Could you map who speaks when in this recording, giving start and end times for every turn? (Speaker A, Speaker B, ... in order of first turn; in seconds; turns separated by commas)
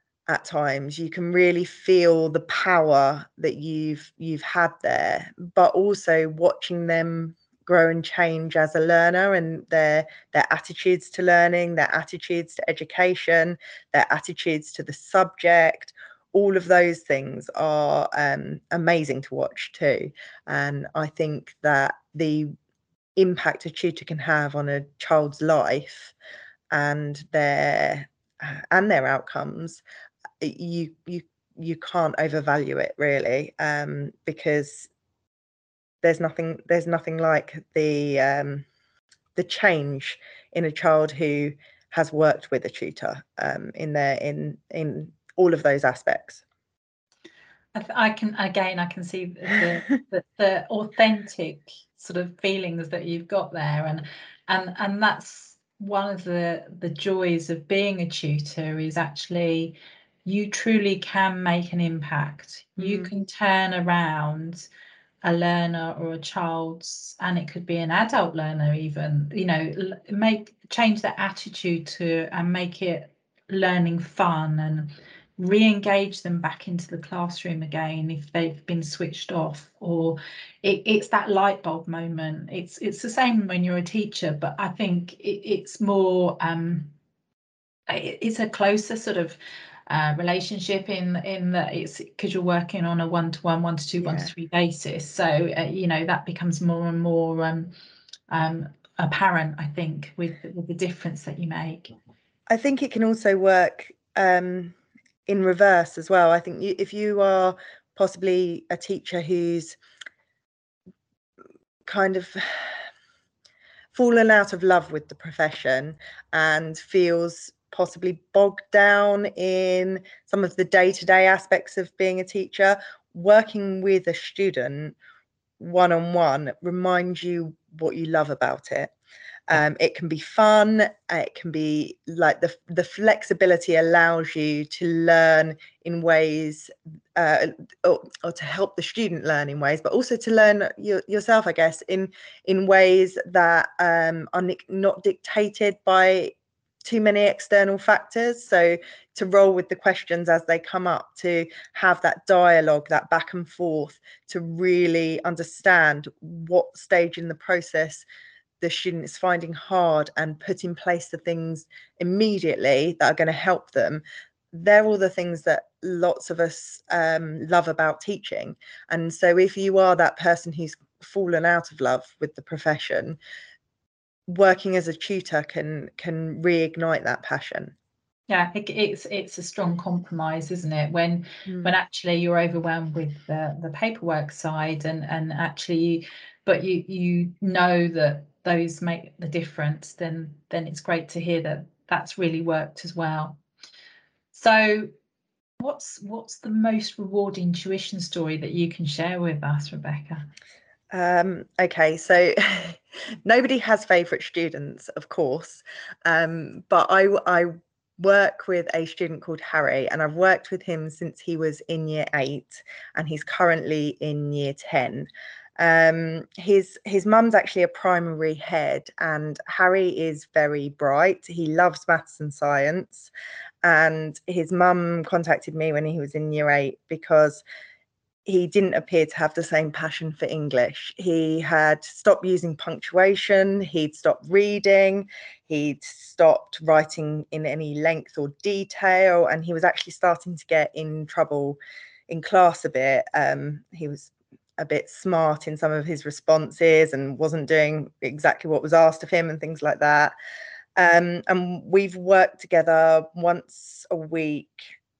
Speaker A: 0.3-22.5, Speaker A: 23.2-26.1, Speaker A: 26.7-29.8, Speaker A: 30.4-34.9, Speaker A: 36.0-38.6, Speaker A: 39.4-46.4, Speaker B: 47.8-64.7, Speaker A: 62.8-63.1, Speaker B: 65.2-86.9, Speaker B: 87.9-89.4, Speaker B: 89.9-97.7, Speaker A: 94.0-94.3, Speaker B: 98.3-101.9, Speaker A: 102.5-104.8, Speaker A: 105.3-109.8, Speaker A: 111.9-112.8, Speaker A: 113.9-125.0, Speaker A: 125.6-128.9, Speaker A: 129.5-146.3, Speaker A: 146.8-158.1, Speaker A: 158.6-173.2, Speaker A: 174.3-177.7, Speaker B: 178.3-193.4, Speaker A: 181.5-181.7, Speaker B: 194.3-194.9, Speaker B: 195.6-200.3, Speaker A: 200.9-223.1, Speaker A: 223.6-227.4, Speaker A: 228.3-250.2, Speaker A: 250.8-254.7